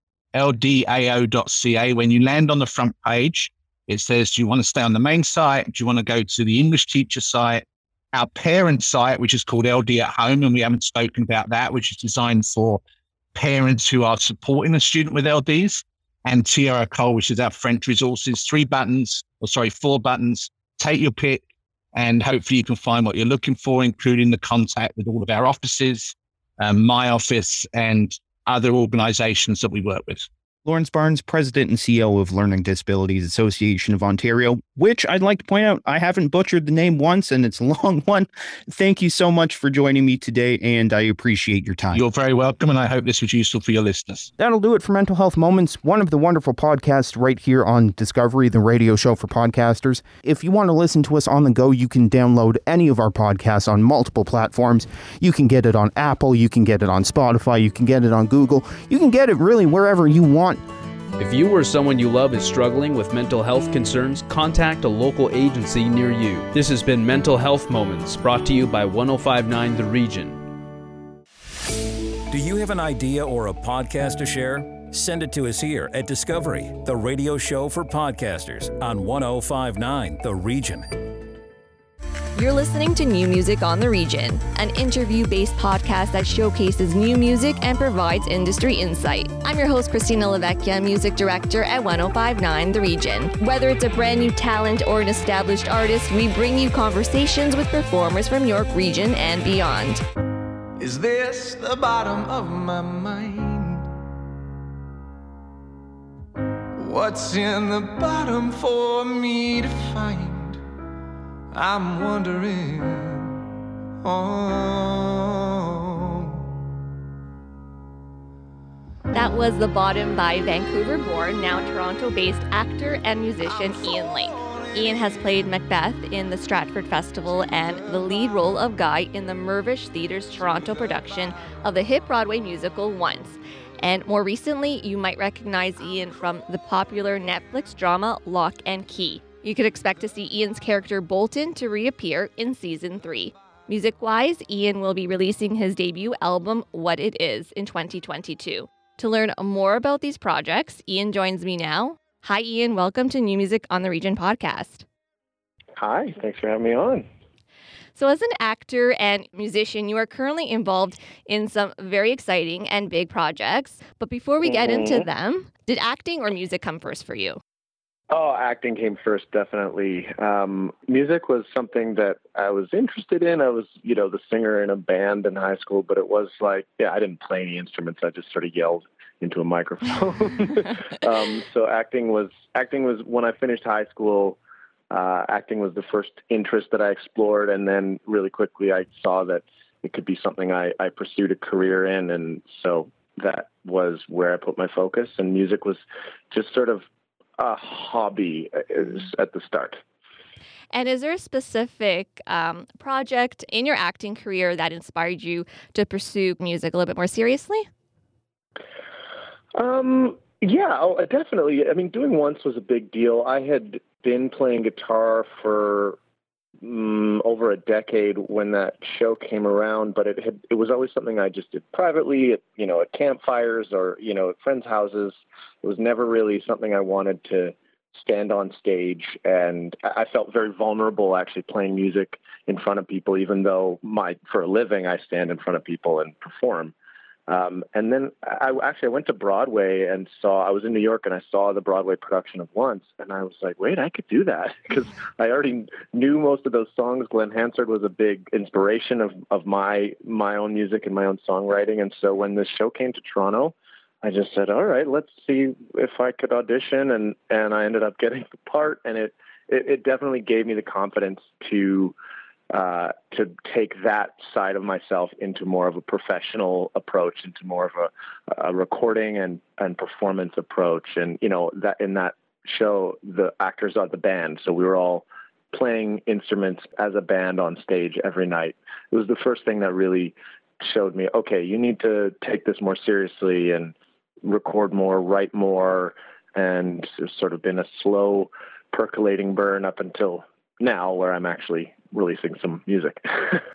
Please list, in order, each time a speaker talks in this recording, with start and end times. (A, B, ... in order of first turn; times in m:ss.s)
0:00.3-0:12.8 A
0:13.4-0:30.3 A
0:30.7-0:42.0 B
0:41.9-0:44.3 A
0:44.4-1:00.6 B
1:01.2-1:10.4 C
1:12.3-1:20.9 D
1:22.4-1:40.0 E
1:40.8-1:43.9 F
1:46.8-1:50.6 F
1:51.5-1:53.4 F
1:54.0-1:56.4 F
1:59.1-2:34.8 E
2:04.2-2:04.6 F
2:35.8-2:37.1 G
2:38.0-2:47.4 E
2:44.4-2:45.1 G
2:48.1-3:04.4 G
3:04.9-3:16.9 G
3:17.4-3:19.8 G
3:20.7-3:27.7 E
3:29.6-3:36.0 G
3:36.6-3:56.7 G
3:57.3-4:22.0 G
4:22.5-4:53.4 G